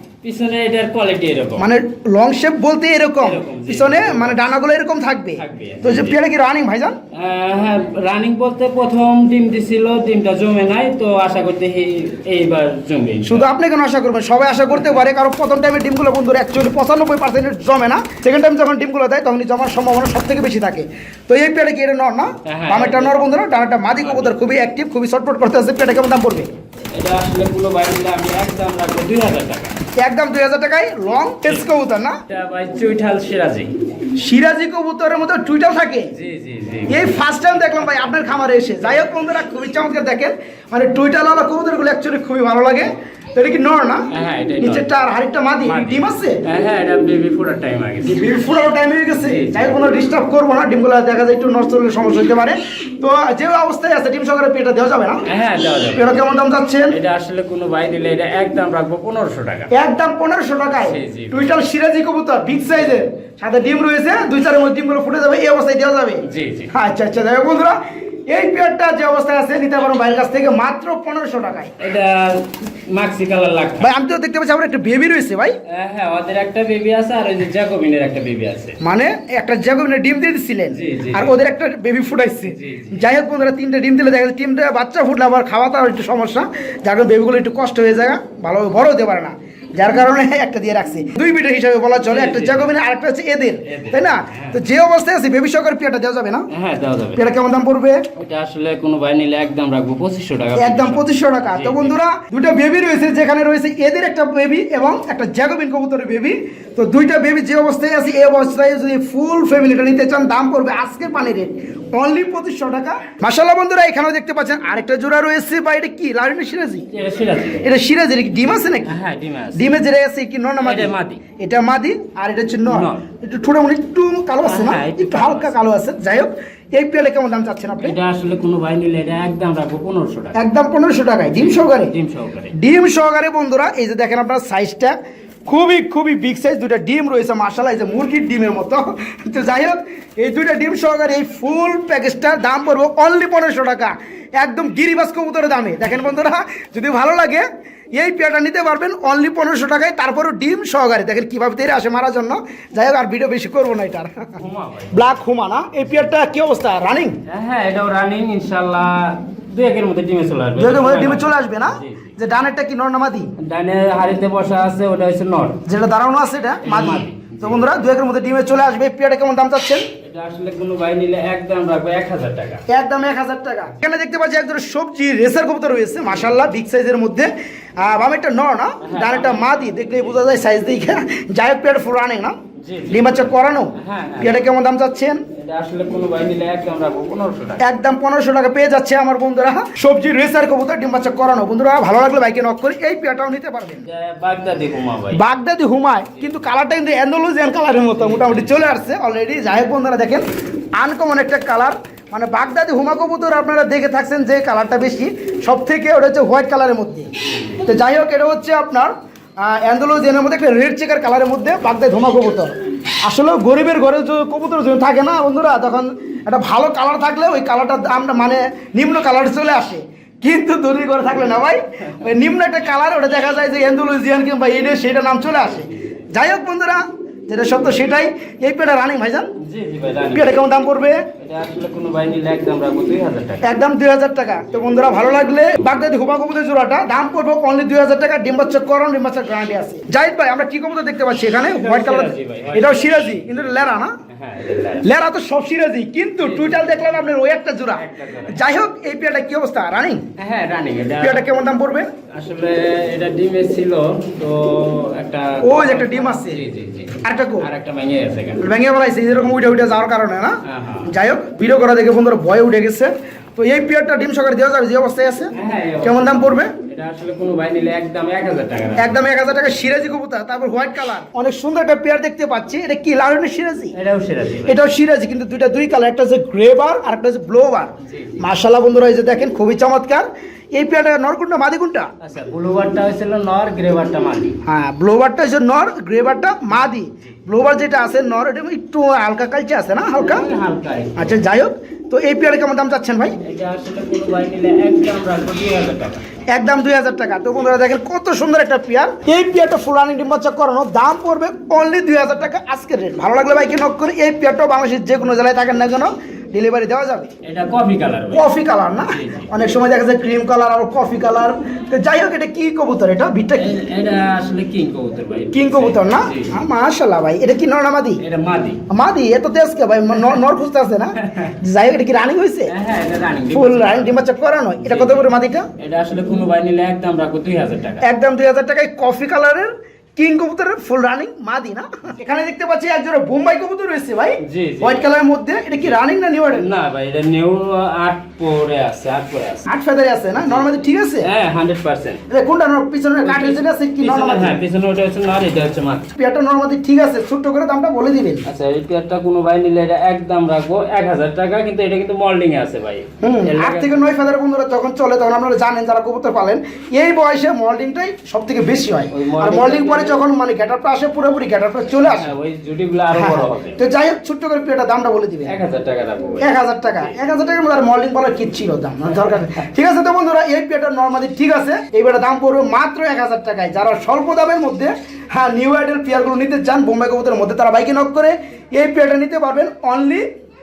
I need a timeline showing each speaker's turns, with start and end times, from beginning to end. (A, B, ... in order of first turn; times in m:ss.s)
0:00.2-0:01.7 A
0:01.6-0:07.0 B
0:03.2-0:04.4 A
0:05.4-0:06.2 A
0:07.1-0:13.5 A
0:13.2-0:26.5 B
0:22.4-0:23.2 A
0:23.9-0:24.4 A
0:26.9-0:29.8 A
0:30.0-0:32.2 B
0:32.3-0:33.7 A
0:34.2-0:36.1 B
0:36.1-0:37.1 A
0:36.9-0:44.1 B
0:44.1-0:44.9 A
0:44.6-0:46.4 B
0:45.6-0:48.3 A
0:48.0-0:55.2 B
0:49.2-0:49.8 A
0:55.2-0:56.2 A
0:55.9-0:57.0 B
0:56.9-0:59.7 A
0:59.7-1:11.7 B
1:00.8-1:01.5 A
1:06.2-1:06.7 A
1:11.8-1:13.9 A
1:13.8-1:15.6 B
1:15.7-1:18.8 A
1:18.8-1:36.4 B
1:20.7-1:21.4 A
1:22.5-1:23.0 A
1:32.0-1:32.7 A
1:33.7-1:34.6 A
1:36.5-1:37.2 A
1:37.2-1:38.0 B
1:38.2-1:41.9 A
1:40.5-1:56.9 B
1:56.9-1:57.7 A
1:57.6-1:59.0 B
1:58.8-1:59.7 A
1:59.5-2:08.0 B
2:00.6-2:01.2 A
2:02.7-2:03.0 A
2:04.4-2:05.5 A
2:07.8-2:10.4 A
2:10.4-2:11.9 B
2:11.3-2:12.5 A
2:12.5-2:34.3 B
2:34.4-2:35.0 A
2:34.9-2:37.2 B
2:37.3-2:42.1 A
2:40.6-2:43.3 B
2:43.4-2:45.6 A
2:45.6-2:49.9 B
2:46.6-2:47.8 A
2:50.0-2:52.6 A
2:52.7-3:02.4 B
2:58.8-3:00.2 A
3:02.6-3:04.4 A
3:02.9-3:05.2 B
3:05.3-3:07.6 A
3:07.6-3:13.8 B
3:13.8-3:15.2 A
3:15.1-3:20.2 B
3:18.0-3:18.6 A
3:20.8-3:27.1 B
3:27.2-3:27.6 A
3:27.6-3:49.3 B
3:49.4-3:50.3 A
3:50.1-3:51.0 B
3:51.2-3:53.5 A
3:53.4-4:03.9 B
4:01.5-4:03.4 A
4:04.1-4:04.9 A
4:04.8-4:10.0 B
4:06.2-4:06.9 A
4:07.7-4:08.4 A
4:10.2-4:11.3 A
4:11.0-4:11.9 B
4:12.1-4:18.4 A
4:15.4-4:16.4 B
4:17.0-4:17.5 B
4:18.4-4:26.5 B
4:20.4-4:20.9 A
4:25.3-4:29.0 A
4:28.8-4:33.7 B
4:33.7-4:34.6 A
4:34.5-4:41.9 B
4:37.9-4:38.2 A
4:42.0-4:44.4 A
4:44.4-4:50.3 B
4:50.0-4:51.2 A
4:51.0-4:53.2 B
4:53.2-4:56.1 A
4:56.3-5:07.1 B
5:07.2-5:08.3 A
5:08.1-5:13.6 B
5:08.8-5:09.3 A
5:13.4-5:16.4 A
5:15.3-5:18.0 B
5:18.0-5:18.6 A
5:18.7-5:22.5 B
5:21.0-5:21.3 A
5:22.5-5:24.0 A
5:23.3-5:25.5 B
5:24.6-5:27.8 A
5:27.8-5:36.5 B
5:34.2-5:34.8 A
5:36.3-5:39.5 A
5:39.4-5:41.1 B
5:40.2-5:42.0 A
5:42.1-5:44.4 B
5:43.0-5:45.9 A
5:45.9-5:48.2 B
5:48.2-5:53.9 A
5:53.0-6:02.1 B
5:58.9-6:00.1 A
6:01.8-6:03.6 A
6:02.9-6:05.3 B
6:05.2-6:06.9 A
6:06.2-6:20.1 B
6:08.9-6:09.2 A